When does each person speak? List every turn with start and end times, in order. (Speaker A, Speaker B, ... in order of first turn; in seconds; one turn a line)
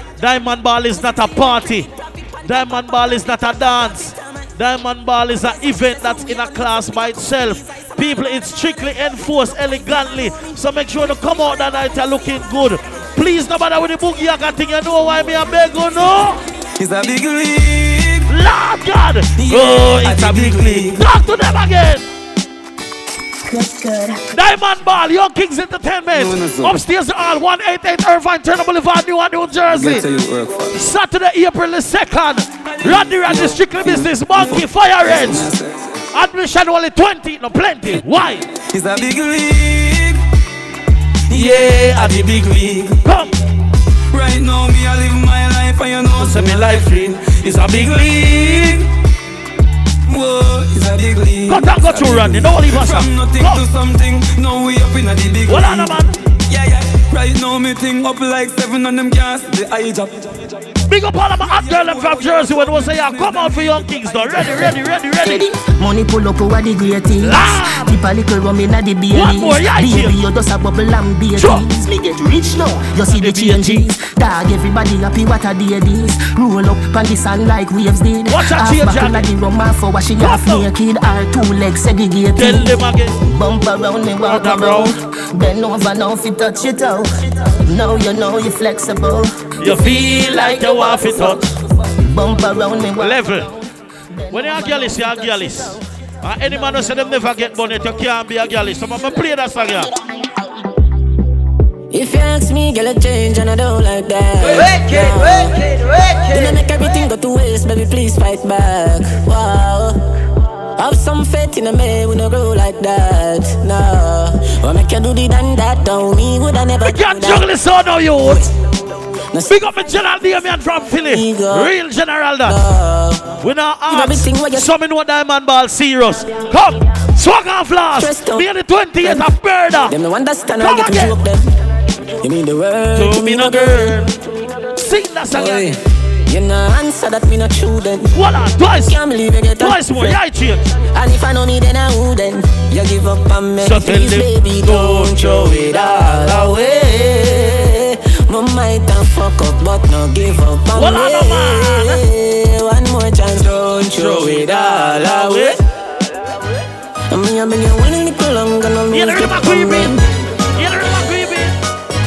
Speaker A: 0.2-1.9
Speaker B: 1.1-3.2
Speaker A: 2.4-16.4
Speaker B: 3.8-4.5
Speaker B: 5.8-8.1
Speaker B: 10.0-10.5
Speaker C: 16.8-18.3
Speaker A: 18.3-22.0
Speaker C: 19.4-21.0
Speaker A: 24.3-30.1
Speaker C: 26.1-26.8
Speaker C: 29.7-30.8
Speaker A: 30.7-35.5
Speaker C: 32.6-36.0
Speaker A: 36.1-38.4
Speaker C: 38.7-40.2
Speaker C: 41.3-43.0
Speaker A: 41.3-43.3
Speaker C: 44.1-48.9
Speaker A: 46.2-48.5
Speaker C: 50.0-60.7
Speaker A: 51.5-53.6
Speaker A: 55.5-56.2
Speaker A: 60.9-65.5
Speaker C: 61.3-64.7
Speaker D: 65.2-91.3
Speaker A: 67.2-68.0
Speaker A: 69.1-70.2
Speaker A: 71.3-71.7
Speaker A: 73.1-73.9
Speaker A: 78.3-79.3
Speaker A: 80.2-80.7
Speaker A: 82.3-83.2
Speaker A: 84.2-84.9
Speaker A: 89.6-91.4
Speaker D: 92.0-93.4
Speaker A: 93.0-93.5
Speaker D: 94.3-95.7
Speaker A: 94.3-99.9
Speaker B: 101.9-105.5
Speaker E: 104.4-106.6
Speaker B: 106.3-110.0
Speaker B: 110.8-117.5
Speaker A: 116.8-118.5
Speaker A: 119.4-122.7
Speaker B: 121.1-121.7
Speaker B: 122.5-123.3
Speaker A: 123.4-130.0
Speaker B: 123.9-124.7
Speaker B: 127.9-128.4
Speaker B: 129.9-131.4
Speaker A: 130.5-131.2
Speaker B: 132.2-134.1
Speaker A: 132.9-134.1
Speaker A: 134.7-135.8
Speaker B: 136.3-138.1
Speaker A: 138.1-139.0
Speaker B: 138.8-140.2
Speaker A: 139.5-140.7
Speaker B: 141.0-147.5
Speaker A: 143.6-147.8
Speaker B: 148.3-155.6
Speaker A: 150.7-152.0
Speaker A: 153.8-155.6
Speaker B: 157.1-159.9
Speaker A: 158.9-160.0
Speaker A: 160.6-161.5